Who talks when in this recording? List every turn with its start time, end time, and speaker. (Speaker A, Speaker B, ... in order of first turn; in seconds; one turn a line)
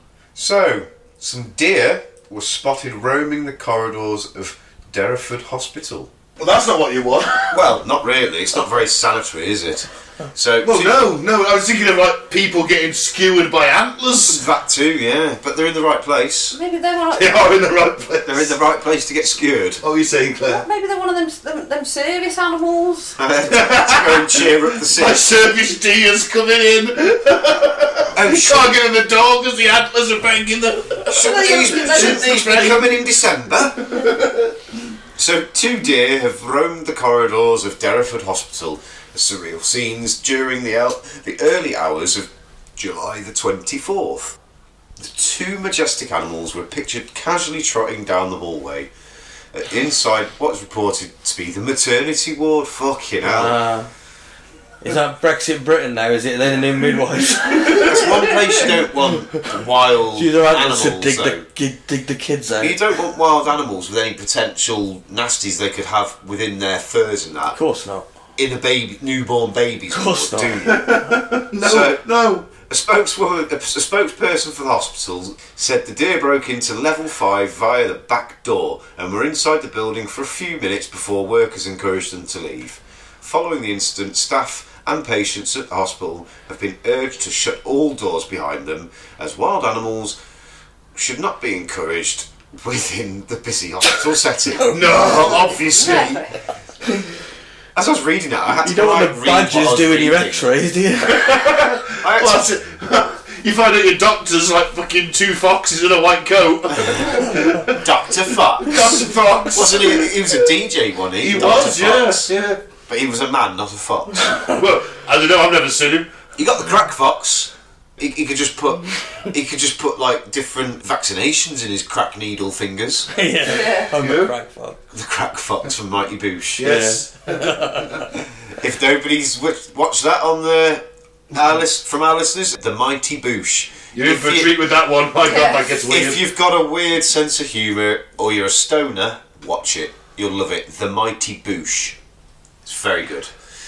Speaker A: 0.3-6.1
Speaker B: 6.4-7.6
Speaker A: 7.5-11.0
Speaker B: 10.6-14.4
Speaker A: 14.2-16.6
Speaker C: 16.5-17.4
Speaker B: 17.1-18.6
Speaker A: 18.2-19.8
Speaker B: 19.8-20.6
Speaker C: 20.4-23.2
Speaker A: 23.2-25.2
Speaker B: 23.5-33.0
Speaker A: 28.1-28.8
Speaker C: 31.1-32.3
Speaker A: 31.1-34.1
Speaker B: 33.8-34.5
Speaker A: 35.2-44.4
Speaker A: 45.0-48.9
Speaker A: 49.5-53.6
Speaker D: 53.2-53.9
Speaker D: 54.8-58.1
Speaker A: 57.7-61.5
Speaker C: 57.9-58.5
Speaker D: 60.1-62.8
Speaker A: 62.6-67.6
Speaker D: 67.5-68.1
Speaker A: 68.4-71.0
Speaker D: 69.9-70.8
Speaker B: 70.6-72.5
Speaker A: 71.6-72.0
Speaker A: 72.5-90.2
Speaker A: 90.9-96.3
Speaker D: 94.5-95.2
Speaker B: 94.7-96.2
Speaker C: 94.9-96.4
Speaker A: 97.8-100.5
Speaker D: 98.6-101.4
Speaker B: 101.1-107.8
Speaker A: 102.0-102.5
Speaker A: 106.9-112.3
Speaker B: 108.6-110.5
Speaker B: 111.2-112.6
Speaker A: 112.9-114.4
Speaker B: 114.4-116.1
Speaker A: 116.4-123.1
Speaker D: 123.1-124.8
Speaker C: 123.5-123.9
Speaker B: 123.9-124.3
Speaker A: 124.9-126.7
Speaker B: 126.6-128.0
Speaker D: 126.6-128.1
Speaker A: 128.5-134.6
Speaker B: 133.9-136.2
Speaker C: 135.2-135.8
Speaker A: 135.9-142.0
Speaker A: 142.6-143.3